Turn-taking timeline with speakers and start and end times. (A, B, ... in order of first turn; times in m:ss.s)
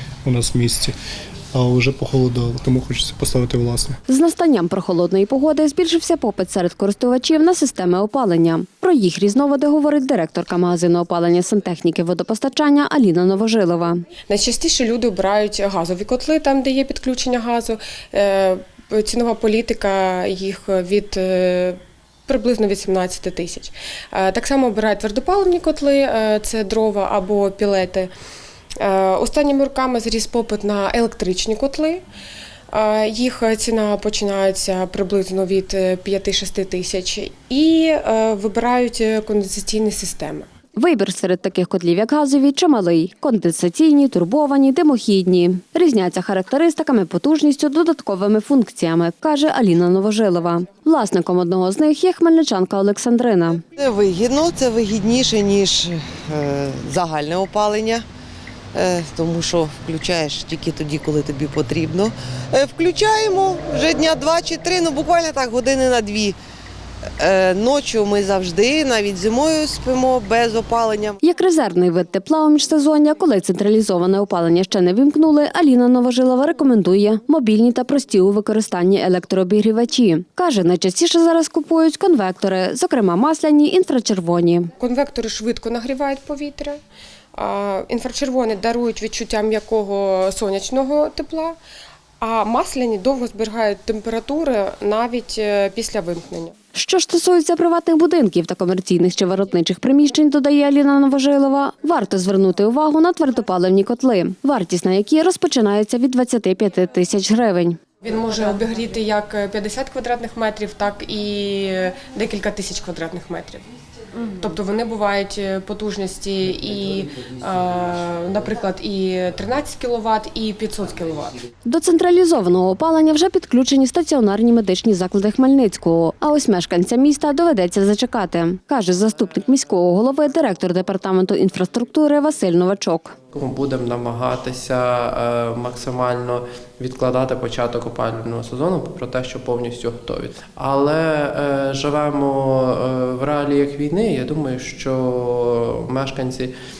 0:00.2-0:00.9 A
0:01.5-0:04.0 A
0:04.1-0:14.0 B
0:14.3-0:28.1 C
0:28.8-0:32.0 C
0:32.7-0:40.5 C
0:40.8-0:53.6 B
0:53.7-0:58.0 D
0:58.7-1:06.4 D
1:07.2-1:11.2 D
1:11.2-1:24.7 B
1:24.8-1:26.8 C
1:27.3-1:31.6 C
1:32.2-1:36.5 C
1:36.7-1:47.8 B
1:48.0-1:53.6 C
1:54.2-2:01.4 C
2:01.6-2:13.1 B
2:13.3-2:26.5 E